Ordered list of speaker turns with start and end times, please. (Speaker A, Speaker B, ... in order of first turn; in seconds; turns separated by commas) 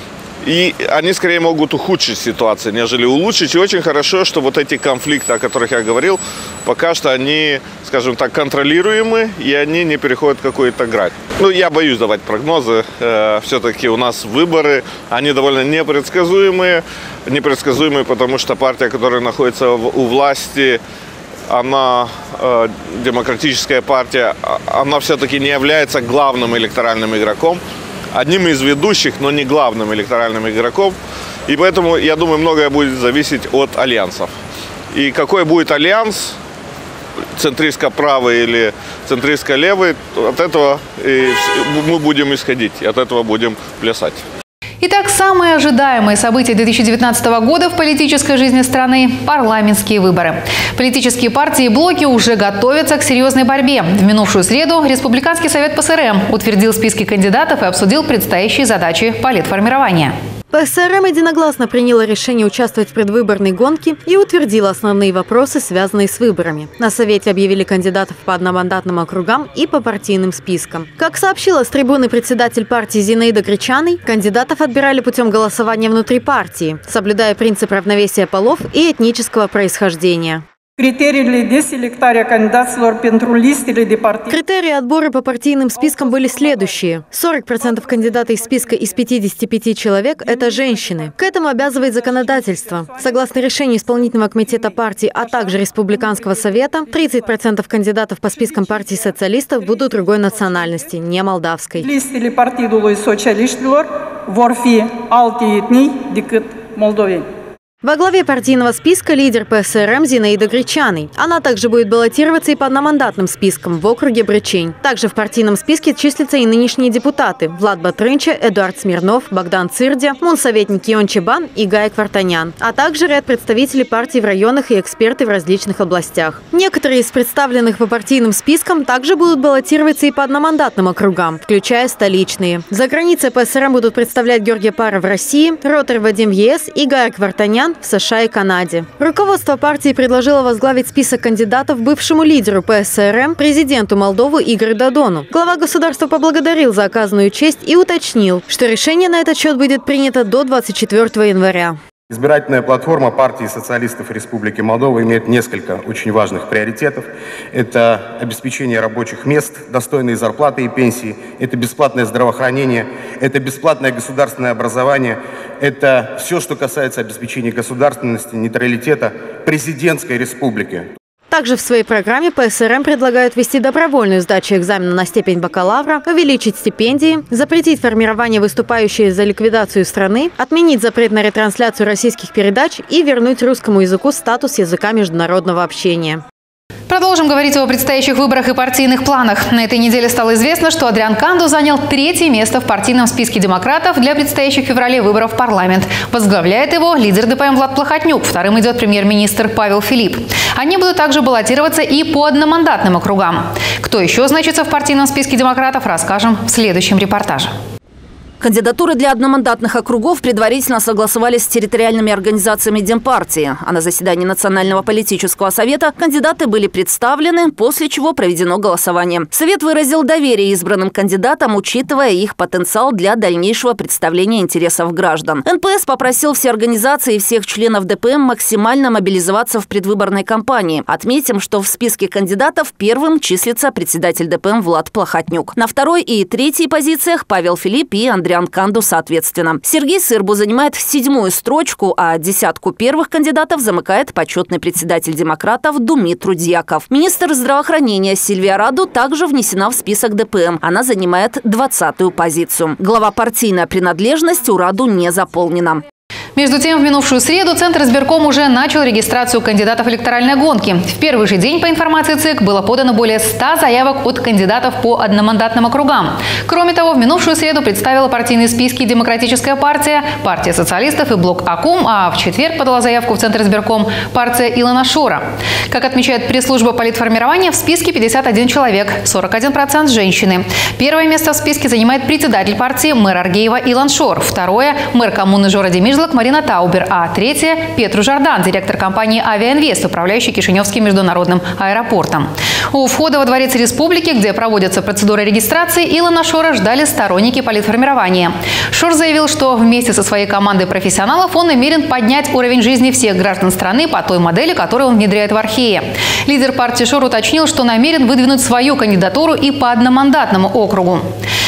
Speaker A: 0.4-20.8, Speaker A: 21.5-27.6, Speaker A: 28.1-31.0, Speaker A: 31.5-34.3, Speaker A: 34.9-36.4, Speaker A: 37.4-44.2, Speaker B: 44.8-60.1, Speaker C: 60.5-80.5, Speaker D: 80.8-84.3, Speaker C: 84.3-101.9, Speaker D: 101.8-107.3, Speaker C: 107.8-151.8, Speaker E: 152.1-170.9, Speaker C: 171.3-186.2, Speaker B: 186.9-207.5, Speaker F: 208.4-255.8, Speaker B: 256.4-311.1